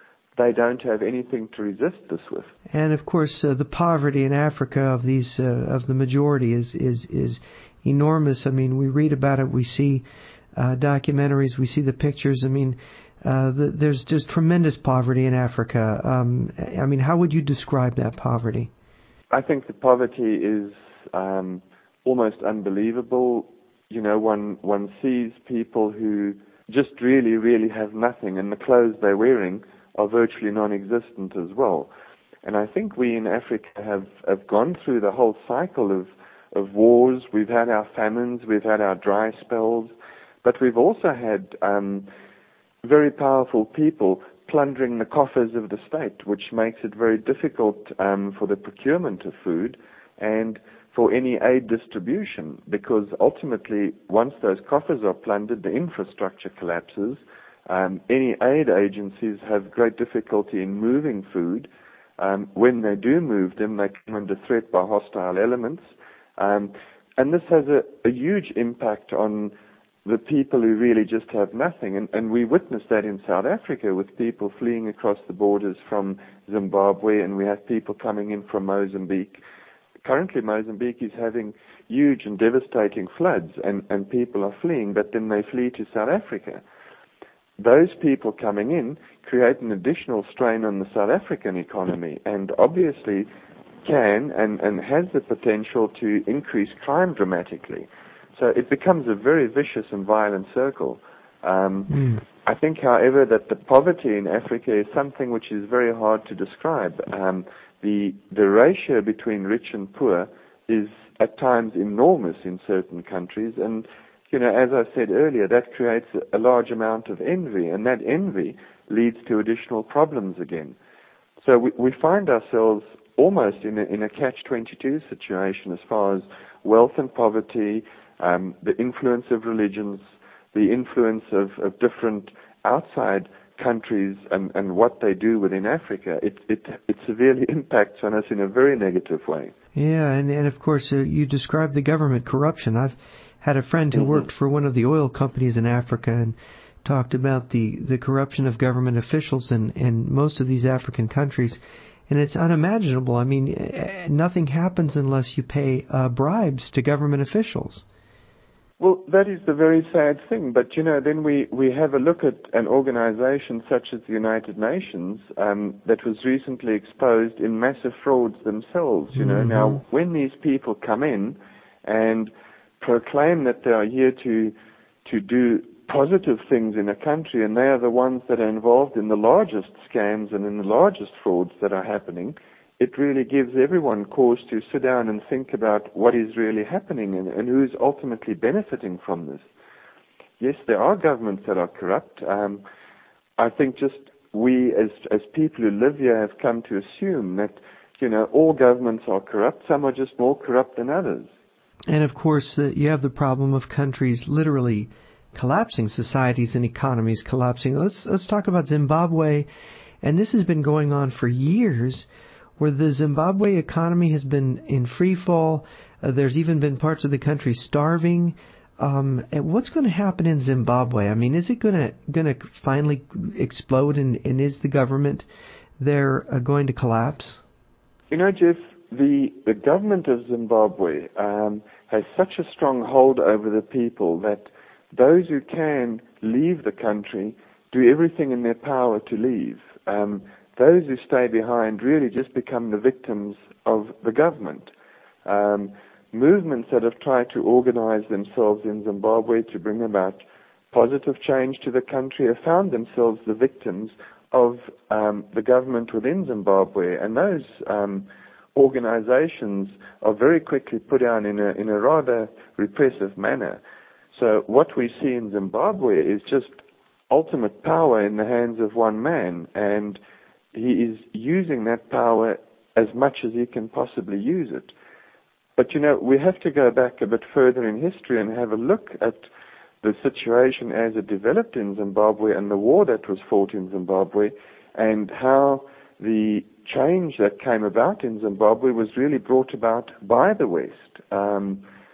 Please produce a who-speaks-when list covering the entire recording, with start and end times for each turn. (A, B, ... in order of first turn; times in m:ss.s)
0:00.4-0:02.5 A
0:02.7-0:18.7 B
0:19.3-0:31.9 A
0:32.4-0:39.9 A
0:40.4-0:42.1 A
0:42.8-1:09.5 A
1:10.0-1:19.4 A
1:20.0-1:26.6 A
1:27.6-1:33.3 A
1:33.8-2:00.8 A
1:41.9-1:42.2 B
2:01.4-2:19.5 A
2:19.8-2:37.8 B
2:38.8-3:09.5 A
2:49.1-2:49.8 B
3:10.4-3:12.6 A
3:13.4-3:21.3 A
3:21.9-3:29.5 B
3:30.0-3:32.1 B
3:32.6-3:45.3 B
3:45.8-3:47.4 B
3:48.1-4:04.7 A
4:05.2-4:23.6 A
4:24.1-4:30.0 A
4:30.5-4:34.7 A
4:35.6-4:39.3 A
4:39.8-4:51.6 A